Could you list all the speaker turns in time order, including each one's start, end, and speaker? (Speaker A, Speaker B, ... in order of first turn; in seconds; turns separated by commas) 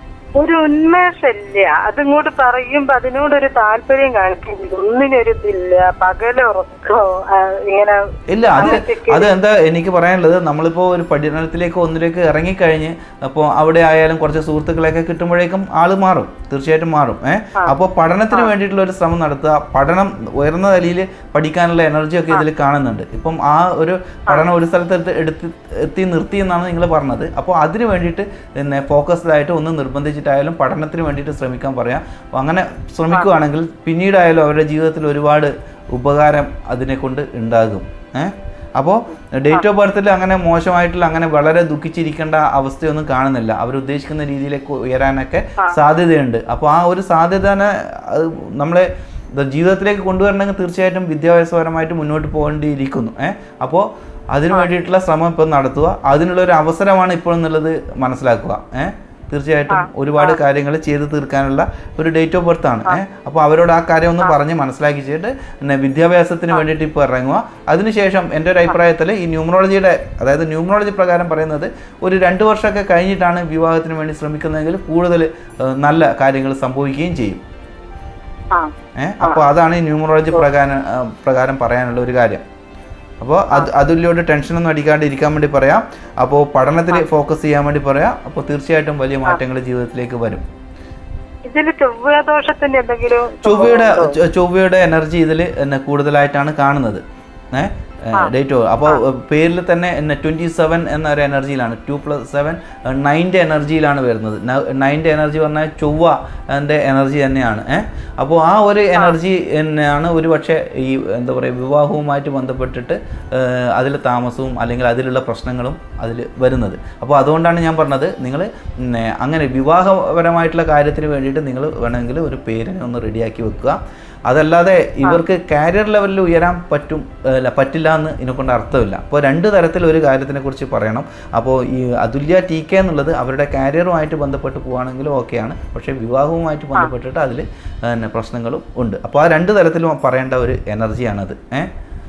Speaker A: 0.3-8.0, Speaker B: 8.3-77.4, Speaker A: 8.5-9.3, Speaker A: 59.7-60.4, Speaker A: 78.5-79.5, Speaker B: 79.0-82.4, Speaker B: 83.2-90.4, Speaker A: 91.5-94.2, Speaker B: 93.4-141.7